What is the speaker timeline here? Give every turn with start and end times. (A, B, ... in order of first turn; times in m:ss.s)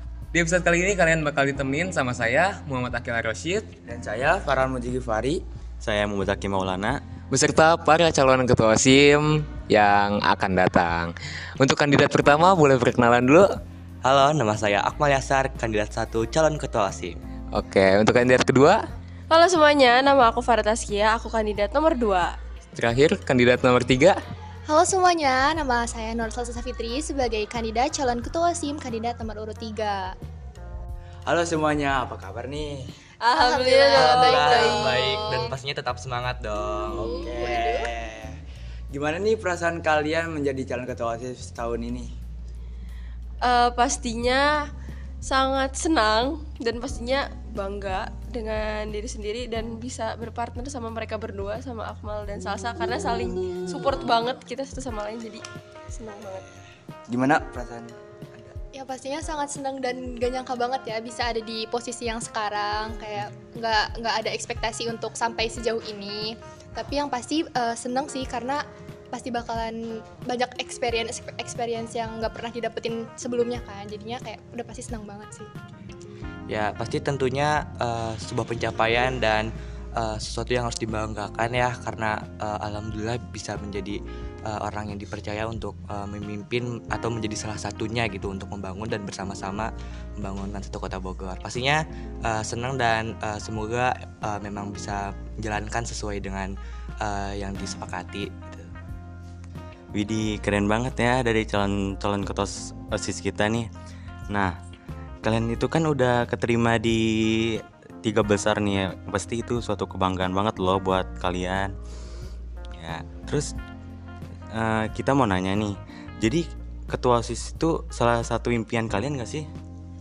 0:00.3-0:03.6 A
0:03.8-0:05.4 B
0:05.8-0:07.0 C
0:07.3-0:13.5 A
0:14.0-0:17.2 D
0:17.5-0:18.8 A
0:19.3-0:22.4 E
0:22.7-0:24.2 A
0:24.7-0:30.2 F
0:31.2-0:32.8 B
0:33.2-0:35.2 E
0:33.3-0:35.6 F
0:33.9-0:37.1 D
0:36.9-0:37.9 F
0:36.9-0:38.3 B
0:38.9-0:42.1 B
0:43.4-0:44.7 E
0:45.2-0:56.5 E
0:57.1-0:58.5 B
0:58.7-1:08.6 F
1:09.1-1:15.5 F
1:16.5-1:38.7 D
1:39.9-1:43.7 C
1:44.3-1:44.6 C
1:45.2-1:51.7 C
1:52.8-1:53.5 C
1:54.5-1:59.5 C